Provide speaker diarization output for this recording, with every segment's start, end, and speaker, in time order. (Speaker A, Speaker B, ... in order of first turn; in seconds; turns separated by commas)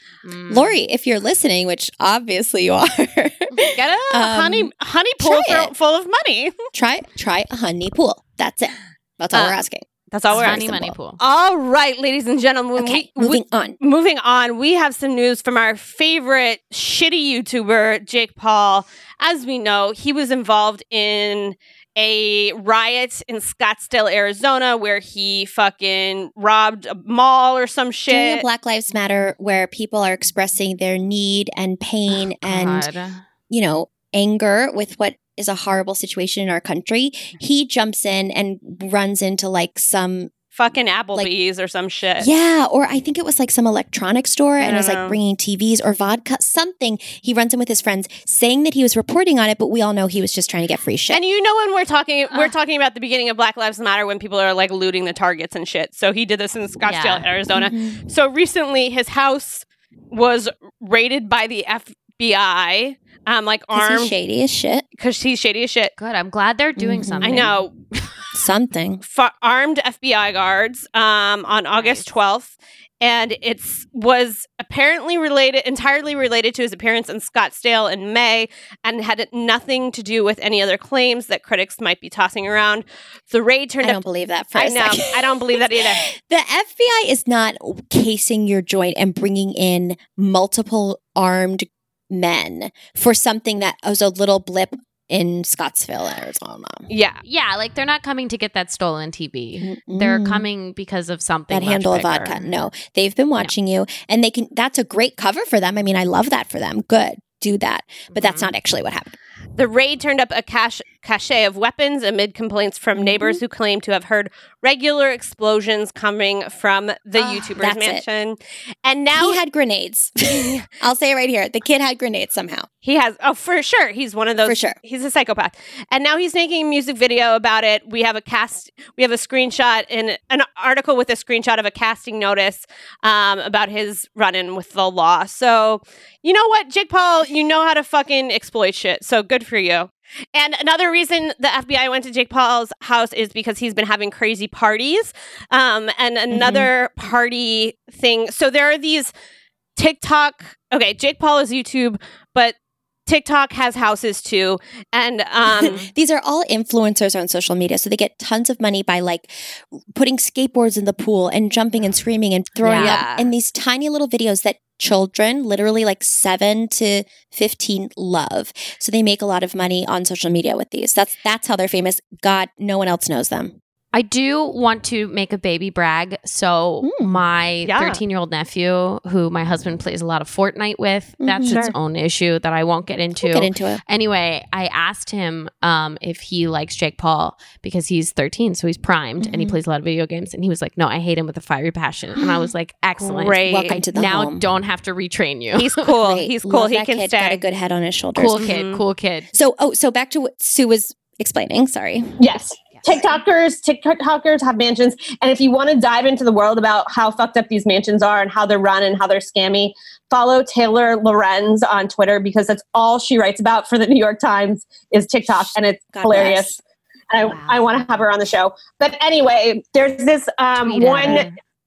Speaker A: 0.2-0.8, Speaker B: 0.5-5.7, Speaker C: 3.7-6.5, Speaker B: 6.7-11.0, Speaker C: 9.3-9.6, Speaker C: 10.1-28.4, Speaker A: 10.3-11.2, Speaker B: 12.8-13.8, Speaker B: 28.1-32.9, Speaker A: 32.4-33.2, Speaker B: 33.5-40.3, Speaker C: 40.5-42.3, Speaker B: 42.2-51.2, Speaker C: 44.6-45.2, Speaker C: 51.1-64.1, Speaker A: 56.9-57.3, Speaker B: 57.5-58.0, Speaker B: 63.7-64.8, Speaker C: 65.0-65.9, Speaker A: 66.0-68.2, Speaker B: 66.8-67.5, Speaker C: 67.2-67.7, Speaker B: 68.3-69.0, Speaker C: 69.1-84.0, Speaker A: 71.8-72.1, Speaker B: 83.8-96.9, Speaker C: 84.5-86.0, Speaker C: 96.9-97.2, Speaker A: 97.2-102.5, Speaker B: 99.6-100.5, Speaker B: 101.5-109.2, Speaker A: 108.1-108.5, Speaker C: 109.6-119.4, Speaker B: 112.9-113.4, Speaker A: 117.2-117.6, Speaker B: 117.6-118.0, Speaker B: 119.1-122.7, Speaker C: 122.8-149.1, Speaker B: 124.4-124.8, Speaker B: 146.3-146.7, Speaker C: 149.8-155.9, Speaker B: 155.4-173.6, Speaker A: 162.6-163.0, Speaker C: 162.7-163.3, Speaker A: 173.9-195.9, Speaker B: 176.8-177.2, Speaker C: 177.7-178.0, Speaker B: 181.2-181.6, Speaker C: 181.5-181.8, Speaker B: 183.2-183.8, Speaker B: 189.2-189.6, Speaker B: 192.2-192.5, Speaker C: 193.0-193.8, Speaker B: 193.4-194.4, Speaker C: 195.6-197.4, Speaker B: 196.0-198.5, Speaker A: 198.2-199.3, Speaker C: 198.4-198.8, Speaker B: 199.3-202.2, Speaker D: 202.2-216.6, Speaker C: 202.9-203.2, Speaker B: 215.3-216.6, Speaker D: 217.1-221.2, Speaker C: 217.2-218.0, Speaker A: 217.2-218.1, Speaker C: 220.6-221.2, Speaker A: 220.6-221.3